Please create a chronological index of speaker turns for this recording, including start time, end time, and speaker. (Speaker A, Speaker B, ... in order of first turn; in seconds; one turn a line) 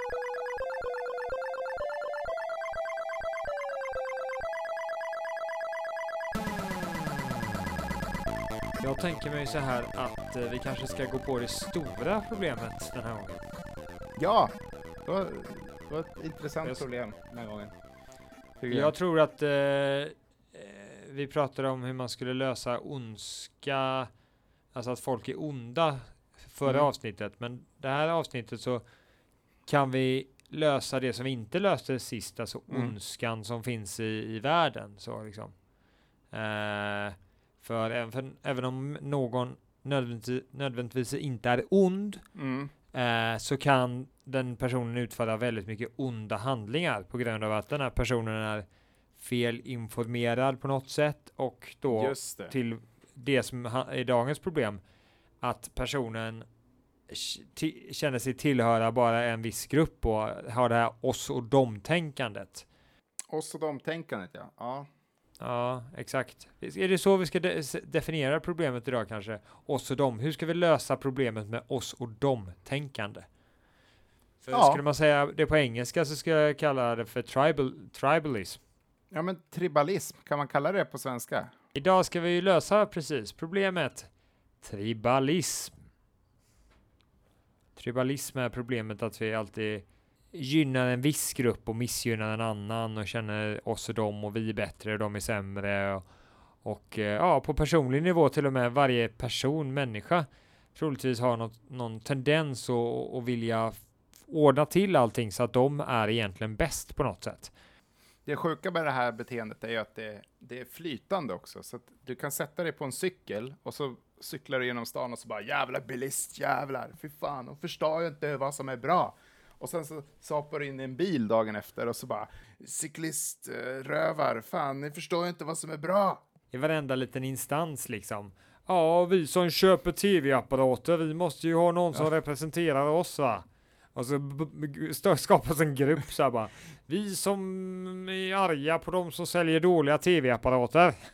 Speaker A: 8.8-13.4
Speaker B: 14.2-14.5
Speaker B: 15.0-17.7
Speaker B: 18.6-18.9
Speaker A: 18.7-24.1
Speaker A: 24.7-28.8
Speaker A: 29.7-35.5
Speaker A: 36.3-42.2
Speaker B: 42.3-42.7
Speaker A: 42.9-48.6
Speaker A: 49.2-54.8
Speaker B: 51.9-52.5
Speaker A: 55.4-56.5
Speaker A: 57.1-62.6
Speaker B: 63.3-64.9
Speaker A: 65.4-73.2
Speaker A: 74.4-78.6
Speaker B: 74.5-74.8
Speaker B: 79.1-81.5
Speaker A: 81.7-84.1
Speaker A: 84.6-85.7
Speaker A: 87.8-96.0
Speaker A: 96.6-103.7
Speaker A: 104.3-107.5
Speaker B: 108.2-126.2
Speaker A: 126.5-141.1